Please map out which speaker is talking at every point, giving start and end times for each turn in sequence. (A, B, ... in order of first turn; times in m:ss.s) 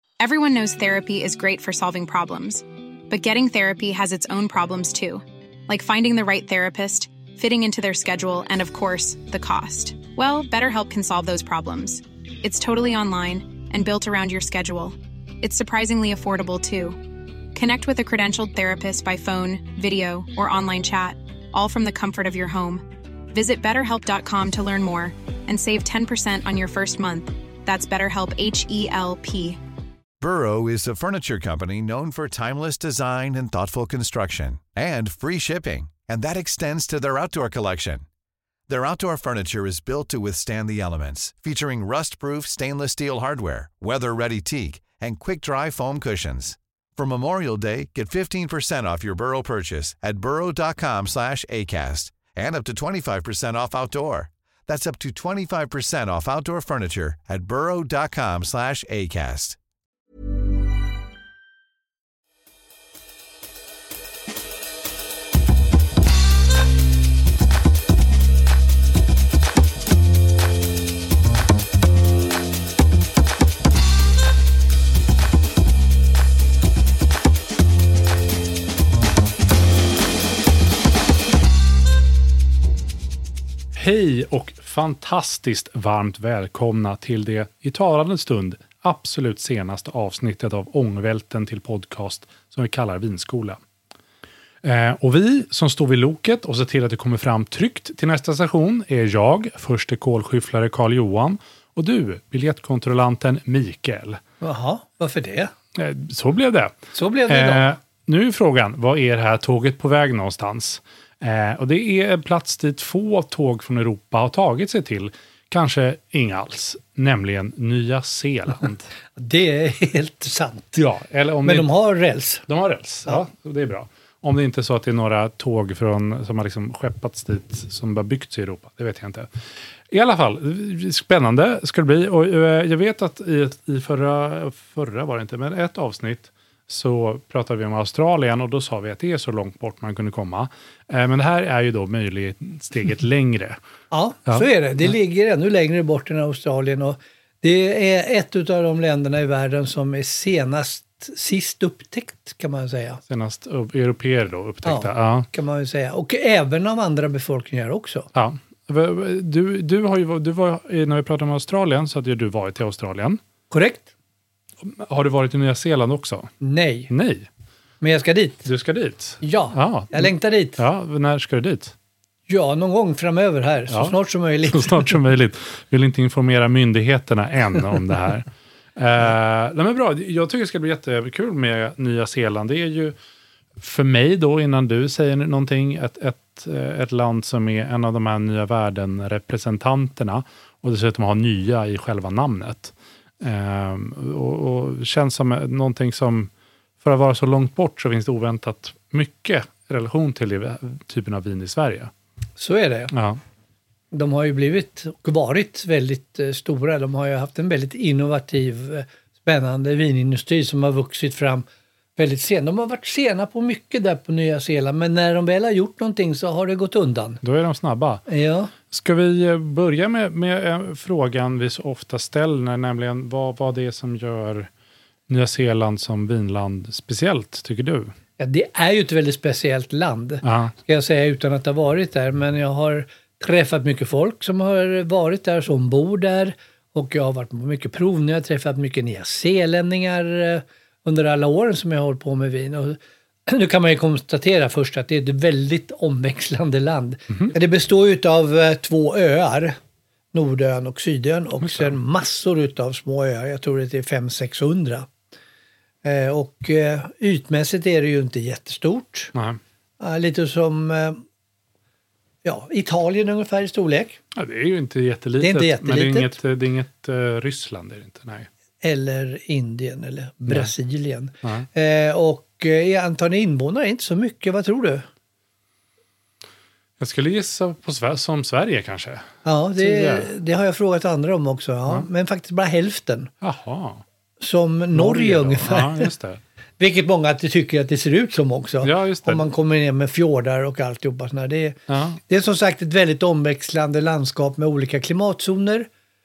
0:00.2-0:17.0 A
0:17.5-0:29.6 A
0:30.2-0:38.0 B
0:38.7-0:59.6 B
1:23.7-1:33.6 C
1:34.6-1:44.2 C
1:44.4-1:45.5 D
1:45.8-1:46.8 C
1:46.9-1:47.7 D
1:47.3-1:58.9 C
1:59.2-2:00.8 D
2:00.7-2:01.7 C
2:01.4-2:02.4 D
2:02.5-2:09.3 C
2:09.9-2:23.6 C
2:23.9-2:33.0 D
2:33.1-2:35.3 C
2:34.6-2:38.1 D
2:38.1-2:43.2 C
2:43.5-2:43.9 D
2:44.6-2:46.3 C
2:46.4-2:46.9 D
2:46.9-2:47.3 C
2:47.8-2:48.4 D
2:48.4-2:51.7 C
2:49.2-2:50.6 D
2:52.3-2:54.9 D
2:53.7-3:03.0 C
3:03.6-3:16.3 C
3:16.8-3:21.9 C
3:22.4-3:22.9 D
3:22.9-3:23.2 C
3:23.9-3:37.2 D
3:37.2-3:38.0 C
3:38.1-3:38.5 D
3:38.7-3:44.5 C
3:45.1-3:47.9 C
3:48.2-4:09.6 D
3:50.2-3:50.5 C
4:10.1-4:14.9 D
4:11.4-4:11.7 C
4:15.8-4:19.1 D
4:19.1-4:19.4 C
4:19.8-4:21.0 D
4:22.2-4:24.0 D
4:24.1-4:28.3 C
4:25.2-4:26.2 D
4:28.6-4:34.8 D
4:36.8-4:40.1 C
4:39.2-4:43.1 D
4:43.2-4:43.8 C
4:44.2-4:45.9 D
4:44.7-4:46.2 C
4:46.6-4:55.7 D
4:48.6-4:49.2 C
4:51.7-4:52.0 C